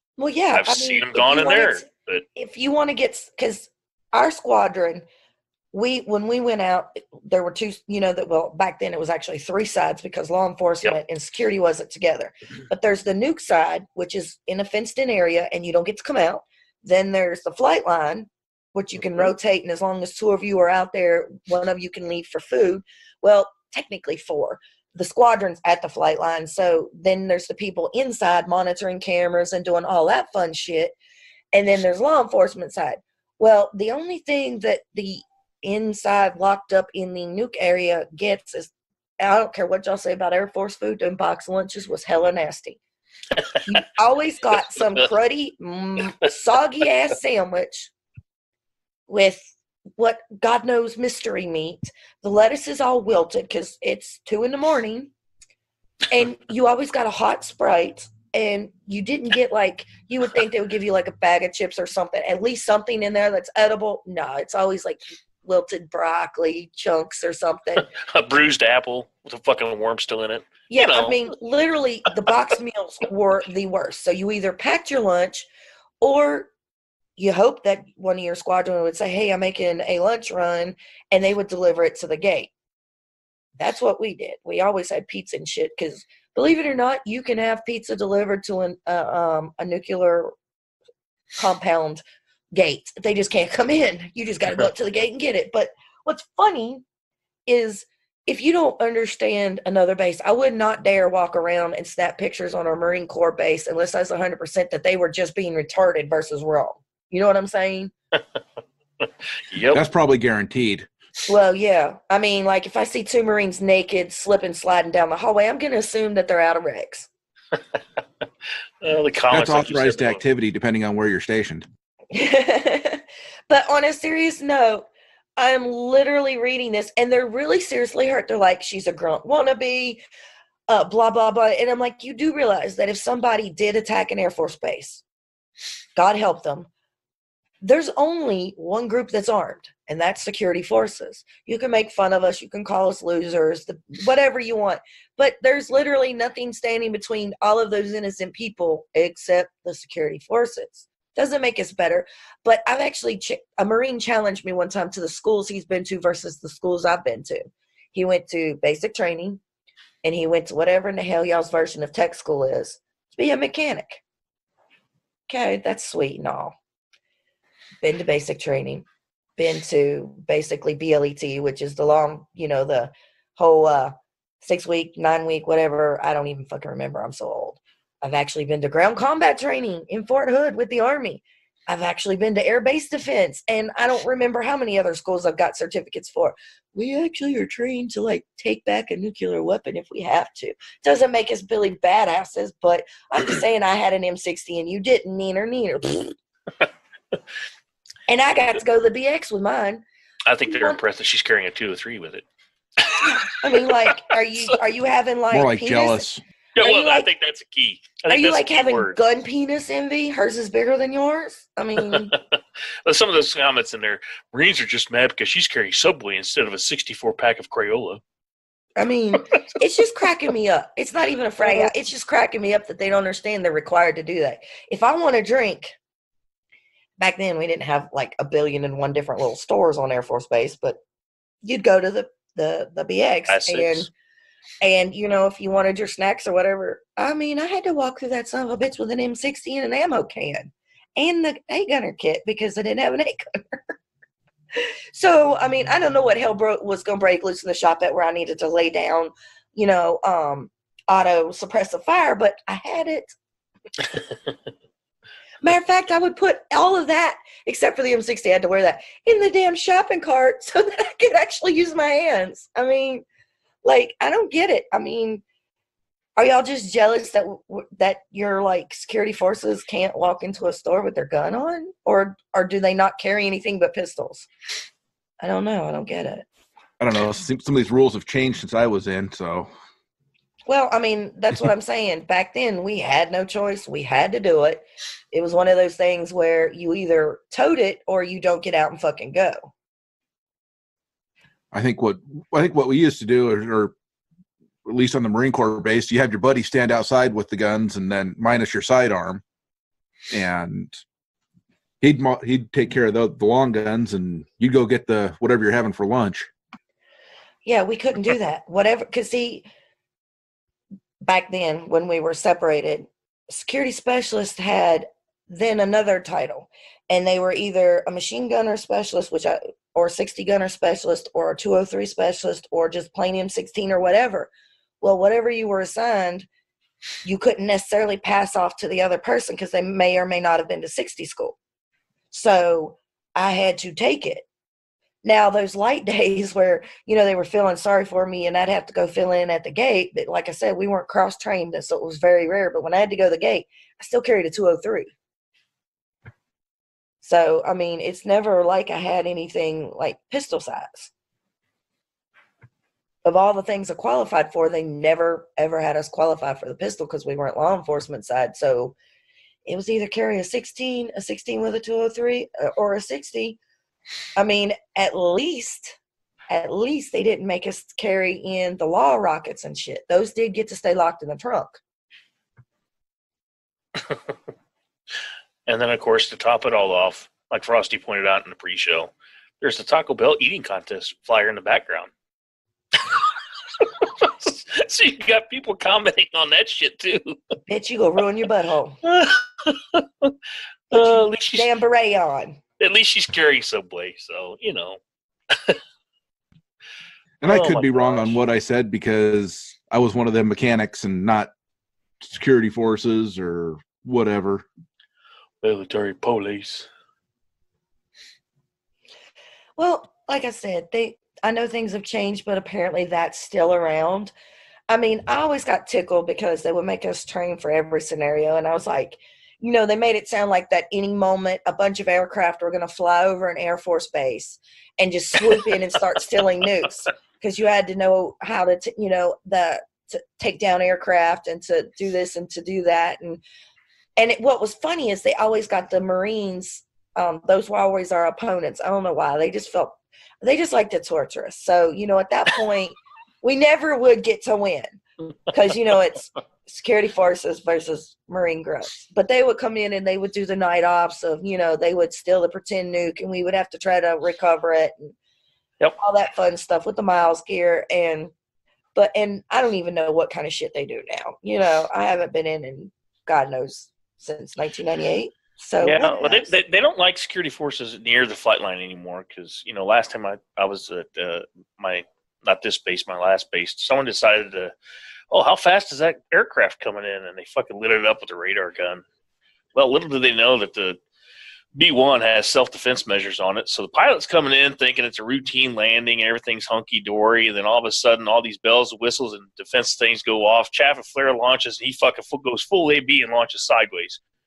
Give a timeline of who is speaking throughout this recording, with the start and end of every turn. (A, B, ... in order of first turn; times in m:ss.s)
0:00.2-0:05.0 A
0:00.5-0:02.2 B
0:05.7-0:30.9 A
0:31.5-0:42.8 A
0:43.6-0:47.9 A
0:49.1-0:55.1 A
0:56.1-1:07.9 A
1:07.8-1:11.2 B
1:10.7-1:15.5 A
1:16.0-1:16.5 A
1:17.2-1:22.5 A
1:23.6-1:30.3 A
1:31.4-1:36.8 A
1:37.5-1:47.9 A
1:49.0-1:49.8 B
1:49.7-1:50.9 C
1:51.2-1:57.1 A
1:58.8-2:00.2 B
1:59.3-2:01.6 C
2:02.1-2:10.0 A
2:10.7-2:15.0 A
2:16.0-2:16.7 A
2:17.6-2:39.4 A
2:40.0-2:44.0 A
2:45.3-2:46.5 A
2:47.8-2:48.8 A
2:49.4-3:16.1 A
3:18.1-3:19.8 A
3:20.2-3:22.2 B
3:20.5-3:20.8 A
3:22.8-3:23.4 B
3:23.3-3:26.0 A
3:25.3-3:26.2 C
3:26.6-3:29.0 B
3:26.6-3:27.1 A
3:28.1-3:32.1 A
3:31.8-3:38.0 B
3:38.8-3:45.7 A
3:47.0-3:50.8 A
3:51.4-3:53.9 A
3:53.3-3:53.9 B
3:54.6-4:03.7 A
4:04.9-4:13.1 A
4:15.4-4:23.0 A
4:23.6-4:25.2 A
4:26.2-4:34.3 A
4:35.2-4:36.2 A
4:36.8-4:39.5 C
4:40.5-4:49.5 A
4:51.5-4:53.7 C
4:54.6-4:59.2 C
5:00.1-5:00.7 C
5:01.8-5:06.3 C
5:07.4-5:09.4 A
5:11.0-5:24.3 A
5:24.8-5:26.2 A
5:27.0-5:31.4 A
5:32.1-5:34.2 A
5:35.0-5:44.9 A
5:47.0-5:50.9 A
5:53.0-5:58.7 A
5:59.4-6:03.4 A
6:04.2-6:05.8 A
6:06.3-6:11.6 A
6:15.4-6:21.9 B
6:23.6-6:27.2 B
6:27.5-6:28.8 A
6:28.8-6:30.1 B
6:30.7-6:31.5 B
6:30.7-6:32.4 A
6:32.6-6:34.8 B
6:35.3-6:35.6 B
6:37.2-6:41.3 C
6:37.3-6:38.2 B
6:42.0-6:44.4 C
6:45.4-6:46.7 B
6:49.6-6:54.1 A
6:54.7-7:13.2 A
7:14.0-7:24.8 A
7:25.3-7:34.9 A
7:35.8-7:38.1 A
7:38.7-7:46.3 A
7:45.6-7:54.5 B
7:55.1-7:58.8 B
7:59.5-8:00.8 B
8:01.6-8:14.0 B